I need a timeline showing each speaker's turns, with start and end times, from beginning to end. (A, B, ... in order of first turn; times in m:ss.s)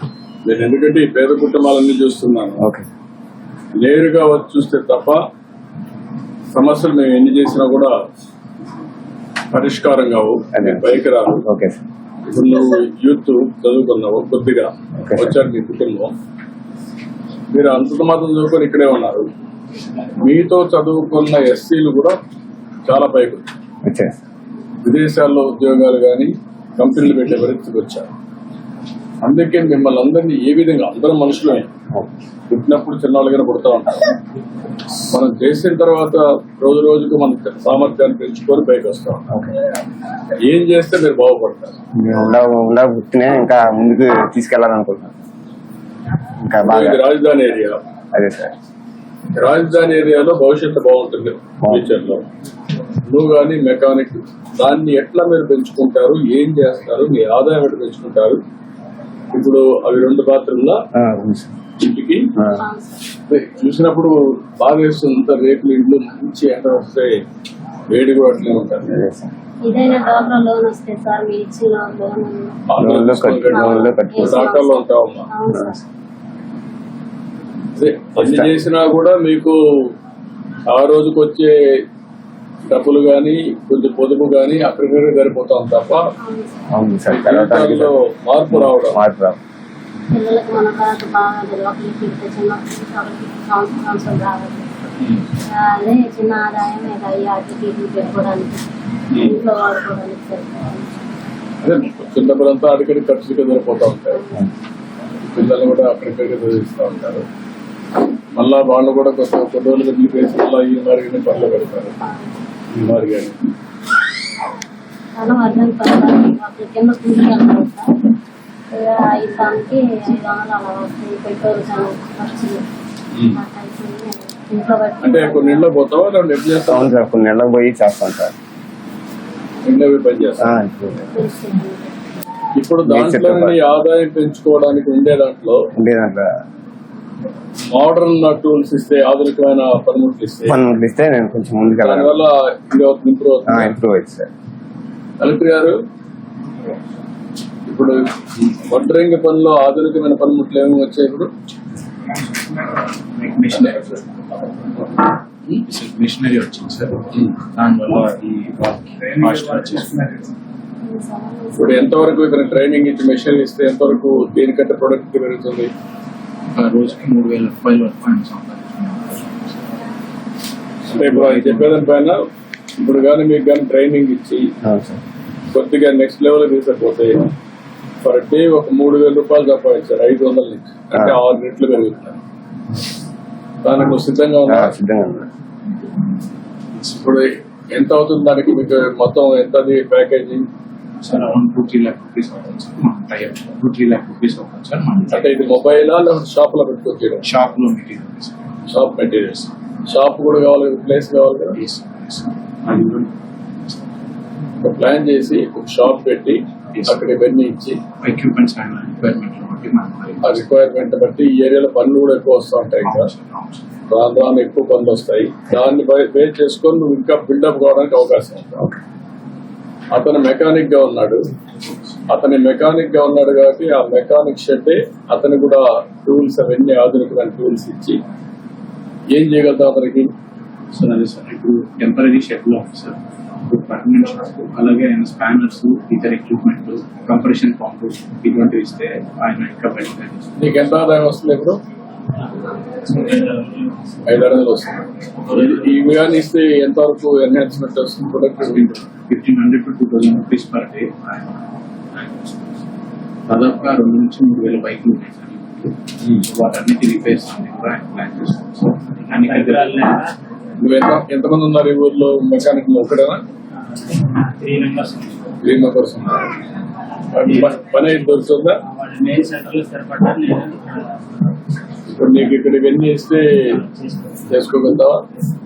0:00.4-0:02.6 A
0:02.6-0:02.9 B
0:03.8-0:05.2 A
0:06.5-0:07.9 A
0:09.5-0:11.4 A
0:10.5-0:11.8 B
0:12.3-0:16.1 A
0:15.0-0:15.4 B
0:17.5-0:19.3 A
0:20.2-0:22.2 A
0:22.9-0:23.5 A
0:23.8-0:24.2 B
0:24.8-0:28.1 A
0:29.2-0:31.7 A
0:32.5-0:34.1 A
0:35.1-0:39.2 A
0:40.4-0:41.8 A
0:42.0-0:45.1 B
0:46.4-0:47.0 B
0:46.6-0:47.8 A
0:48.1-0:48.5 B
0:49.4-0:52.2 A
0:51.6-0:51.9 B
0:53.0-0:58.4 A
0:59.3-1:00.8 A
1:00.9-1:01.5 B
1:01.8-1:02.3 A
1:02.4-1:02.6 B
1:02.5-1:03.0 C
1:03.3-1:07.2 A
1:07.9-1:08.9 A
1:08.8-1:09.3 B
1:09.6-1:12.6 C
1:12.7-1:15.3 A
1:12.8-1:14.5 B
1:13.5-1:15.8 C
1:17.8-1:19.6 A
1:18.2-1:18.5 B
1:20.7-1:21.6 A
1:22.7-1:26.0 A
1:26.2-1:26.7 C
1:26.7-1:27.9 B
1:27.1-1:29.0 A
1:28.5-1:29.4 B
1:30.1-1:34.7 C
1:35.5-1:41.0 C
1:41.6-1:44.2 A
1:44.2-1:44.5 C
1:45.2-1:47.2 A
1:48.4-1:52.0 A
1:52.0-1:52.4 C
1:52.7-1:53.4 A
1:55.2-1:57.9 C
1:58.7-2:02.7 C
2:03.3-2:05.5 C
2:05.0-2:07.0 A
2:06.7-2:08.3 B
2:09.6-2:10.5 A
2:10.4-2:11.2 B
2:11.1-2:11.9 C
2:12.6-2:15.6 A
2:12.8-2:13.6 B
2:15.8-2:16.4 B
2:17.7-2:20.6 A
2:20.5-2:22.2 B
2:21.8-2:23.8 A
2:23.5-2:24.3 B
2:25.2-2:25.8 A
2:27.7-2:31.3 A
2:33.2-2:34.0 D
2:35.7-2:40.1 D
2:39.2-2:40.3 E
2:40.8-2:41.9 C
2:41.6-2:45.7 A
2:46.5-2:49.3 D
2:50.9-2:51.8 D
2:50.9-2:52.2 A
2:52.8-2:54.5 A
2:54.6-2:55.0 B
2:55.5-2:57.3 A
2:58.0-3:02.2 A
3:03.6-3:04.7 A
3:04.5-3:05.3 B
3:07.0-3:10.5 A
3:11.0-3:15.4 D
3:15.1-3:17.2 A
3:17.2-3:18.5 D
3:18.7-3:21.6 A
3:21.6-3:22.8 D
3:24.6-3:27.8 A
3:28.0-3:30.4 D
3:30.2-3:33.1 A
3:32.8-3:33.6 D
3:33.9-3:38.6 A
3:39.9-3:41.3 A
3:42.1-3:48.0 A
3:49.1-3:50.1 A
3:50.7-4:00.5 D
4:00.4-4:01.6 A
4:02.9-4:03.8 E
4:04.0-4:08.6 A
4:08.4-4:11.1 D
4:13.3-4:19.9 D
4:19.1-4:20.2 E
4:20.6-4:23.2 A
4:24.0-4:25.2 E
4:25.4-4:26.2 A
4:27.1-4:28.6 A
4:28.7-4:30.9 E
4:31.9-4:33.6 A
4:33.6-4:34.2 E
4:34.2-4:35.0 A